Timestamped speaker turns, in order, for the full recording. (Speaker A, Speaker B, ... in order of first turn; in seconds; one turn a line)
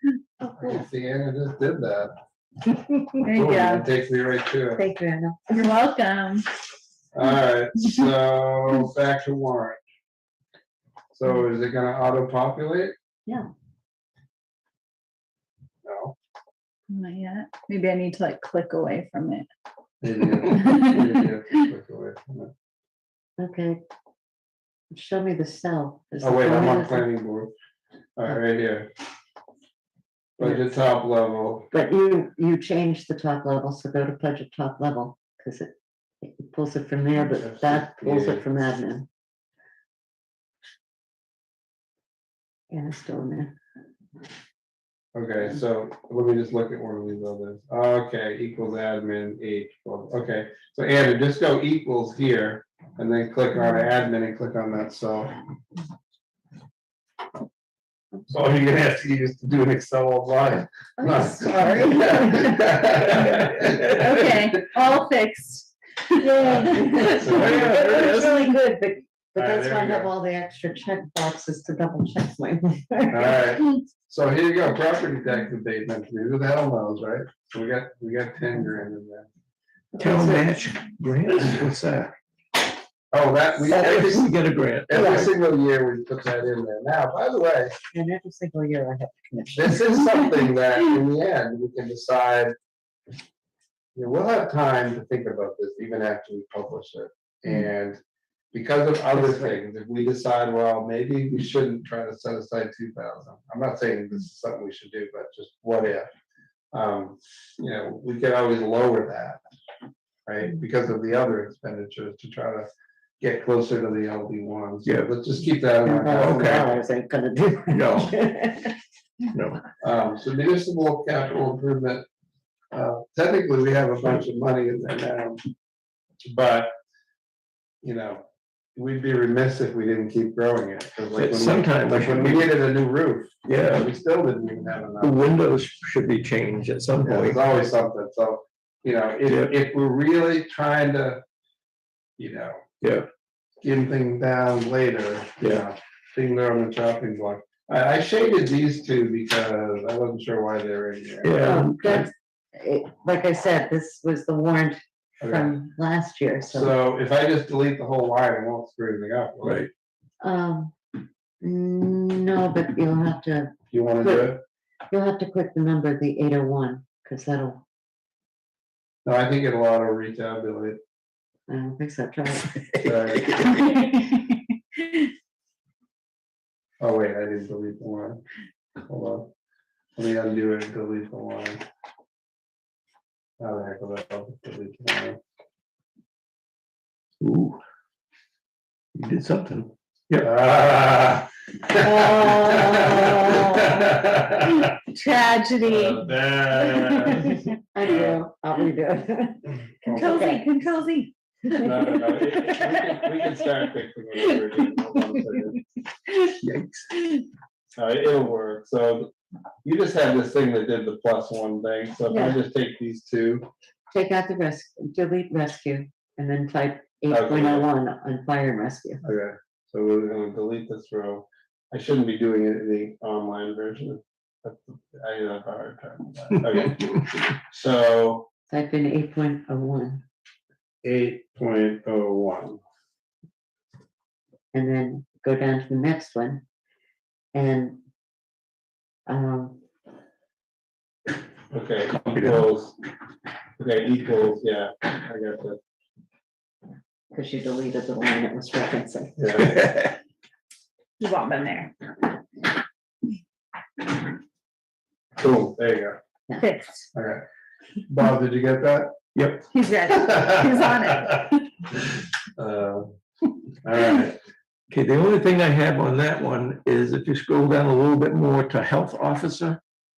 Speaker A: 0.4-0.8
Speaker B: 0.6-2.1
Speaker C: 3.2-3.9
Speaker B: 3.4-4.8
Speaker A: 4.8-5.4
Speaker C: 5.5-6.5
Speaker B: 7.1-9.8
Speaker B: 11.1-12.9
Speaker B: 15.8-16.1
Speaker C: 16.9-19.5
Speaker B: 20.0-22.5
Speaker C: 20.5-21.1
Speaker A: 23.4-23.8
Speaker A: 24.9-27.1
Speaker B: 26.2-27.5
Speaker B: 28.1-28.9
Speaker B: 30.4-31.7
Speaker A: 31.7-39.1
Speaker B: 37.4-38.4
Speaker A: 42.7-43.5
Speaker B: 45.1-55.3
Speaker B: 58.3-64.0
Speaker A: 61.0-62.7
Speaker C: 63.8-67.4
Speaker A: 66.4-73.4
Speaker D: 66.4-66.8
Speaker B: 67.1-68.0
Speaker D: 67.3-68.5
Speaker B: 69.4-70.1
Speaker B: 73.1-79.3
Speaker A: 80.0-80.5
Speaker D: 80.0-82.1
Speaker B: 83.1-84.3
Speaker D: 83.7-85.3
Speaker B: 84.9-87.8
Speaker A: 84.9-85.3
Speaker A: 87.9-90.0
Speaker B: 89.5-92.5
Speaker B: 94.0-98.0
Speaker B: 98.5-106.1
Speaker A: 99.1-99.6
Speaker B: 106.7-109.4
Speaker B: 110.3-112.7
Speaker B: 113.2-116.8
Speaker D: 114.8-115.1
Speaker A: 115.8-118.8
Speaker D: 116.1-116.6
Speaker D: 117.7-118.2
Speaker D: 119.3-119.6
Speaker B: 119.8-122.0
Speaker B: 122.7-125.4
Speaker B: 126.2-126.7
Speaker B: 127.8-128.2
Speaker B: 128.8-135.2
Speaker D: 131.2-132.5
Speaker D: 133.5-133.9
Speaker D: 135.0-137.4
Speaker B: 137.0-141.2
Speaker D: 139.2-139.5
Speaker B: 142.2-142.6
Speaker D: 142.8-143.1
Speaker B: 143.6-151.4
Speaker D: 151.2-152.1
Speaker A: 151.4-156.8
Speaker B: 155.2-155.6
Speaker B: 156.5-159.7
Speaker D: 159.4-159.7
Speaker A: 160.2-160.7
Speaker A: 161.4-164.3
Speaker B: 163.7-164.4
Speaker A: 164.9-167.6
Speaker B: 169.1-170.8
Speaker A: 171.5-173.8
Speaker B: 172.8-173.3
Speaker C: 173.6-174.1
Speaker B: 176.8-178.2
Speaker B: 178.8-179.3
Speaker B: 180.0-181.6
Speaker B: 183.4-185.2
Speaker D: 187.2-187.6
Speaker D: 188.9-190.3
Speaker B: 190.2-194.7
Speaker A: 191.8-193.7
Speaker C: 194.6-196.0
Speaker B: 195.7-198.2
Speaker A: 196.9-200.4
Speaker C: 199.8-203.3
Speaker A: 201.5-202.8
Speaker B: 201.6-205.6
Speaker C: 204.9-205.2
Speaker D: 206.4-206.8
Speaker B: 207.8-209.1
Speaker B: 209.6-213.5
Speaker A: 212.1-212.4
Speaker A: 213.9-219.0
Speaker B: 217.1-217.7
Speaker B: 219.0-228.3
Speaker A: 228.5-230.0
Speaker B: 230.8-232.6
Speaker A: 234.5-236.4
Speaker A: 237.3-237.8
Speaker A: 239.1-239.6
Speaker B: 241.5-242.8
Speaker D: 242.1-242.4
Speaker B: 243.6-245.6
Speaker A: 247.1-249.2
Speaker B: 249.2-249.7
Speaker C: 251.0-251.7
Speaker B: 255.2-256.0
Speaker C: 256.4-256.9
Speaker B: 256.9-257.2
Speaker B: 257.9-258.9
Speaker D: 259.1-259.5
Speaker C: 259.5-261.4
Speaker B: 260.0-260.4
Speaker B: 262.3-262.9
Speaker B: 263.6-264.2
Speaker D: 264.7-269.6